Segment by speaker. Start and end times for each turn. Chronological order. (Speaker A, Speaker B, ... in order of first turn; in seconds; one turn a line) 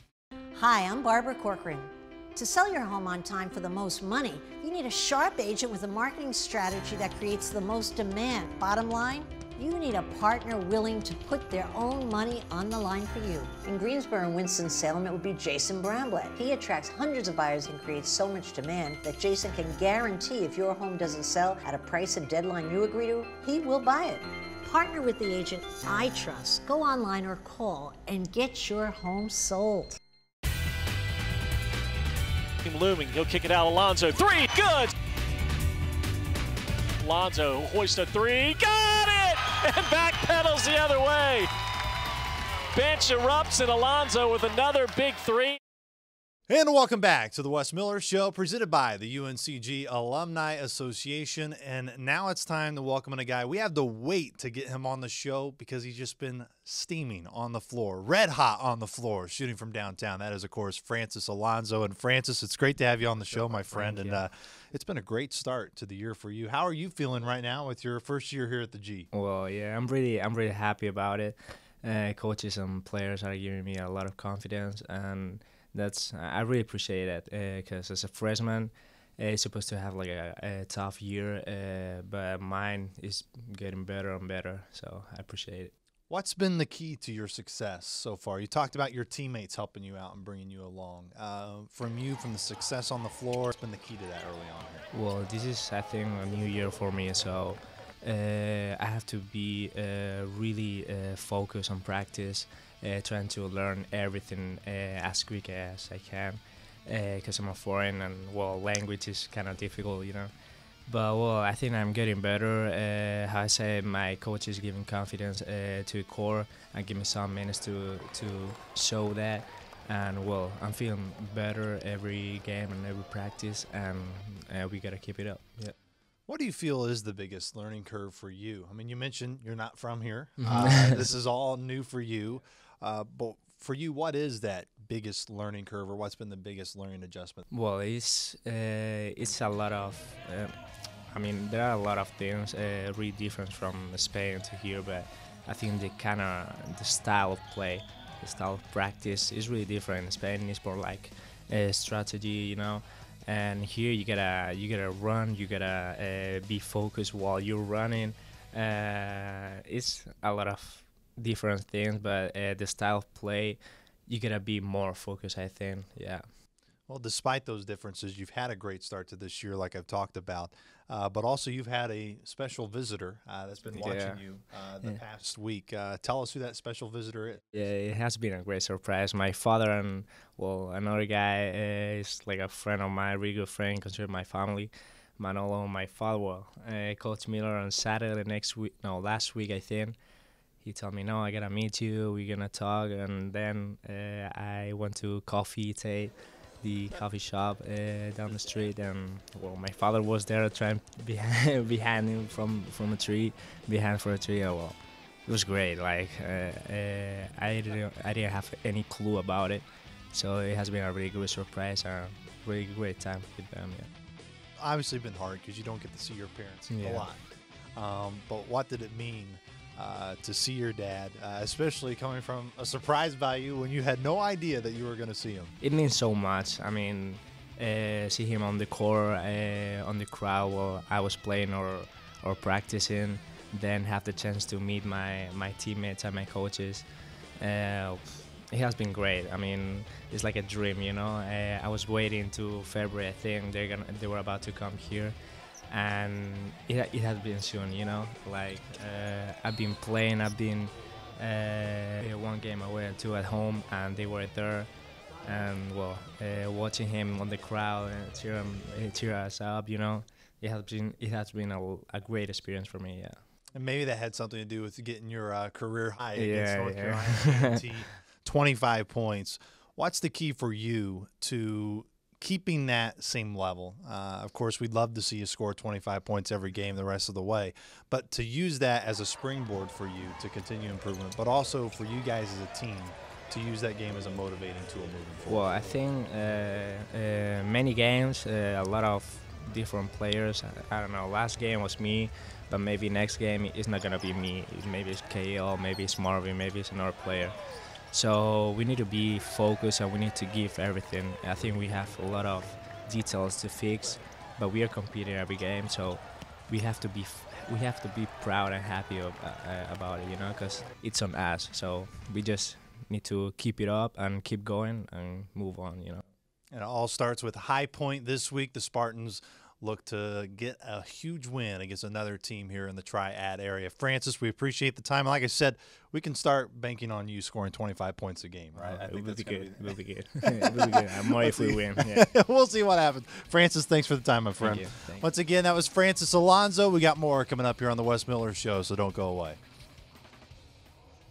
Speaker A: 0.5-30.0
Speaker B: 32.6-34.9
Speaker B: 37.0-41.5
Speaker B: 42.7-45.6
Speaker C: 46.5-69.1
Speaker D: 63.3-64.2
Speaker D: 69.1-85.7
Speaker C: 86.1-94.8
Speaker D: 94.9-110.3
Speaker D: 110.8-125.7
Speaker C: 126.3-137.4
Speaker D: 130.4-131.1
Speaker D: 137.5-140.6
Speaker D: 141.1-166.2
Speaker C: 166.9-177.4
Speaker D: 173.7-174.2
Speaker D: 177.5-190.0
Speaker D: 190.6-213.9
Speaker C: 214.6-217.2
Speaker D: 216.7-217.1
Speaker C: 217.7-225.5
Speaker D: 225.6-245.2
Speaker D: 245.7-254.7
Speaker D: 255.2-263.2
Speaker C: 263.5-285.5
Speaker D: 266.1-267.6
Speaker D: 285.3-316.0
Speaker C: 316.5-339.4
Speaker D: 328.5-332.1
Speaker D: 334.4-335.1